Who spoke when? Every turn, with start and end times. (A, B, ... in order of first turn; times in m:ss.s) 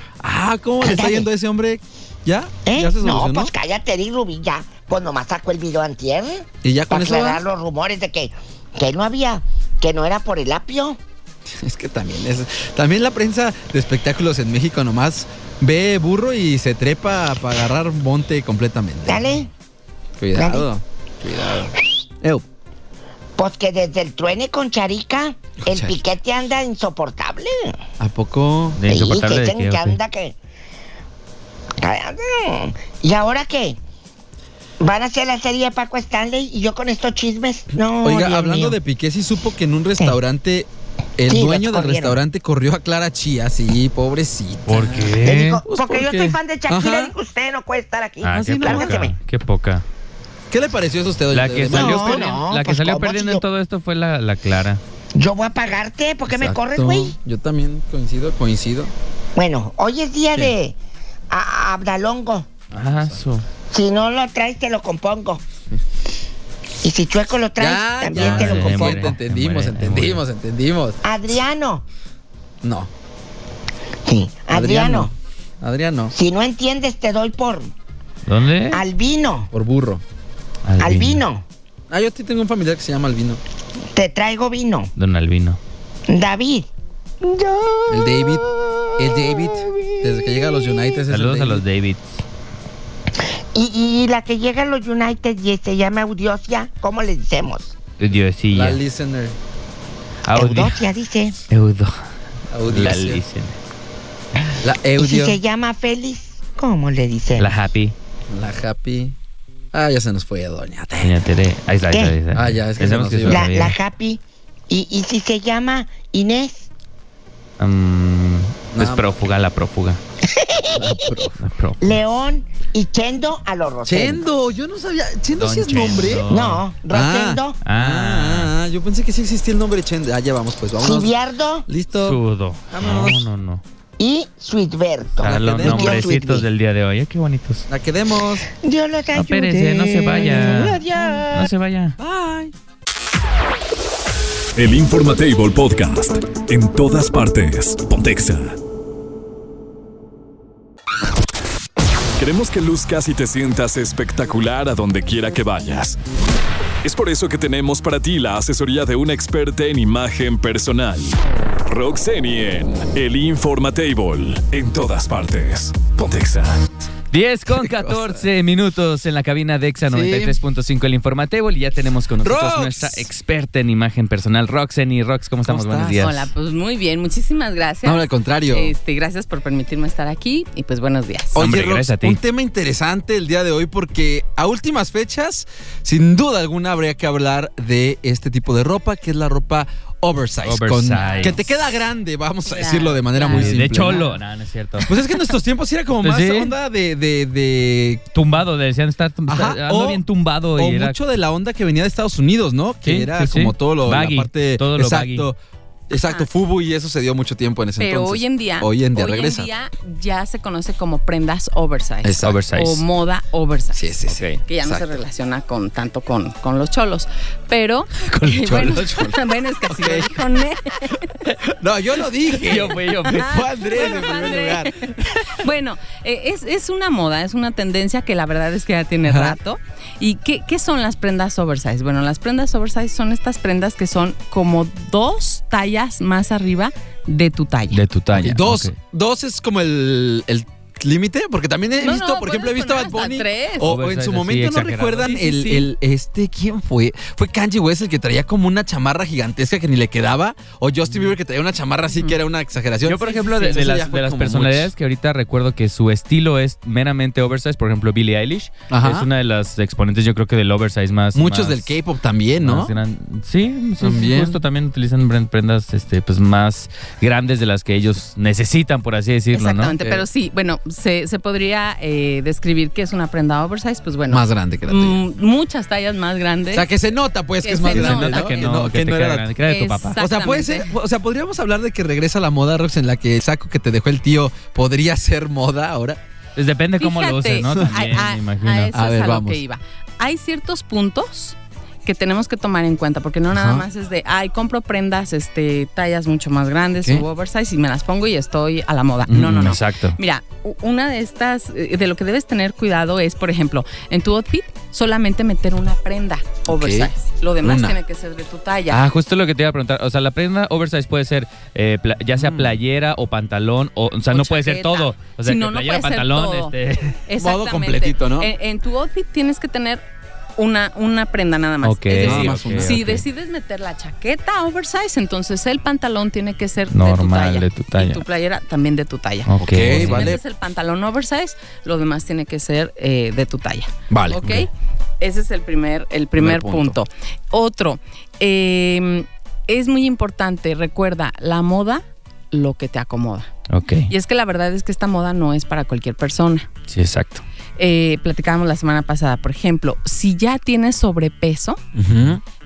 0:00.2-0:03.5 A
0:00.8-0:01.3 B
0:02.7-0:11.0 B
0:06.6-0:07.4 A
0:11.5-0:19.4 A
0:19.1-0:19.5 B
0:20.2-0:22.4 A
0:20.4-0:20.7 B
0:23.4-0:27.5 B
0:25.6-0:26.0 A
0:28.0-0:28.8 A
0:28.8-0:30.0 C
0:28.9-0:30.3 B
0:31.8-0:33.8 B
0:34.8-0:38.8 B
0:38.0-0:40.7 A
0:41.2-0:47.1 A
0:41.3-0:42.2 B
0:44.7-0:45.6 C
0:45.2-0:49.1 B
0:48.2-0:49.8 C
0:48.4-0:49.1 A
0:50.5-0:52.3 A
0:51.3-0:54.8 C
0:51.7-0:53.4 B
0:55.2-0:57.2 B
0:56.3-0:58.9 A
0:59.4-1:00.8 B
1:01.3-1:02.5 B
1:02.7-1:03.2 A
1:02.7-1:03.4 C
1:03.7-1:05.4 B
1:06.8-1:09.1 B
1:07.6-1:11.0 A
1:08.2-1:10.2 C
1:11.0-1:11.8 B
1:12.6-1:12.9 A
1:14.1-1:15.1 B
1:14.5-1:16.1 A
1:16.1-1:17.7 B
1:18.3-1:18.8 C
1:18.7-1:19.5 B
1:19.5-1:20.0 A
1:20.6-1:21.2 C
1:20.8-1:21.4 B
1:21.9-1:23.4 A
1:24.0-1:24.9 B
1:25.0-1:25.6 C
1:26.1-1:26.7 B
1:27.2-1:31.0 B
1:27.9-1:28.5 A
1:29.0-1:31.6 A
1:31.1-1:32.2 C
1:33.6-1:37.7 B
1:38.0-1:38.8 C
1:38.5-1:39.4 A
1:40.2-1:40.8 C
1:40.4-1:41.4 B
1:41.5-1:42.0 C
1:42.5-1:43.2 A
1:42.7-1:43.6 C
1:44.6-1:45.4 A
1:45.0-1:47.5 B
1:47.4-1:48.0 C
1:48.3-1:49.2 A
1:49.7-1:51.2 A
1:51.0-1:53.8 C
1:52.3-1:53.6 A
1:53.3-1:56.7 B
1:57.6-2:00.0 C
1:58.7-1:59.0 A
2:00.7-2:01.3 A
2:01.4-2:01.9 C
2:01.8-2:04.2 B
2:03.9-2:06.2 A
2:05.4-2:06.6 C
2:06.3-2:07.6 B
2:06.9-2:11.2 A
2:07.6-2:08.5 C
2:10.8-2:11.6 B
2:11.7-2:12.2 A
2:12.0-2:13.6 C
2:12.7-2:13.2 A
2:14.0-2:16.4 B
2:15.2-2:17.7 C
2:15.2-2:16.2 A
2:17.7-2:18.5 A
2:18.6-2:21.5 B
2:19.1-2:22.0 C
2:22.0-2:22.5 A
2:24.6-2:28.6 D
2:32.2-2:36.0 D
2:36.8-2:46.6 D
2:47.1-2:56.3 C
2:47.6-2:48.2 A
2:49.9-2:50.4 A
2:52.2-2:53.1 A
2:55.5-2:56.1 A
2:56.0-3:01.4 E
2:57.8-2:58.7 A
3:01.4-3:14.1 A
3:01.4-3:02.2 C
3:10.4-3:11.4 C
3:11.0-3:11.6 E
3:12.5-3:14.1 E
3:13.3-3:14.9 C
3:14.9-3:18.0 A
3:16.0-3:16.5 C
3:18.1-3:21.0 C
3:19.3-3:20.0 A
3:20.6-3:25.4 A
3:22.8-3:25.3 C
3:25.9-3:29.5 A
3:26.0-3:26.3 E
3:27.8-3:33.9 E
3:32.0-3:32.5 A
3:32.2-3:32.8 C
3:33.7-3:34.9 A
3:34.1-3:34.4 C
3:34.4-3:41.1 E
3:38.3-3:40.2 A
3:41.4-3:45.3 A
3:42.4-3:43.3 C
3:43.2-3:57.8 E
3:49.0-3:49.4 A
3:57.7-3:58.8 C
3:58.2-4:14.7 A
4:01.8-4:03.7 E
4:03.7-4:05.2 C
4:05.1-4:05.7 E
4:12.8-4:21.8 C
4:18.7-4:19.1 A
4:21.1-4:22.7 A
4:22.4-4:29.8 C
4:23.8-4:24.4 A
4:29.3-4:36.7 E
4:34.1-4:35.0 A
4:36.5-4:39.3 A
4:37.4-4:38.5 E
4:37.7-4:40.0 C
4:39.4-4:40.7 E
4:40.0-4:46.0 A
4:46.4-4:48.7 C
4:46.8-5:08.8 E
4:47.5-4:47.9 A
4:48.7-4:49.4 A
4:53.3-4:53.7 A
4:59.1-5:00.0 C
5:06.5-5:07.8 A
5:08.7-5:17.0 C
5:12.2-5:12.6 A
5:14.1-5:16.6 E
5:17.1-5:19.8 E
5:17.2-5:18.3 A
5:20.4-5:34.5 E
5:21.6-5:23.0 C
5:22.0-5:23.0 A
5:26.7-5:28.0 C
5:29.3-5:30.1 C
5:29.4-5:30.2 A
5:33.9-5:34.4 A
5:35.0-5:43.3 E
5:36.2-5:36.8 A
5:43.5-5:43.9 C
5:43.9-5:46.5 E
5:46.7-5:47.2 C
5:47.6-5:51.6 E
5:51.8-5:52.2 A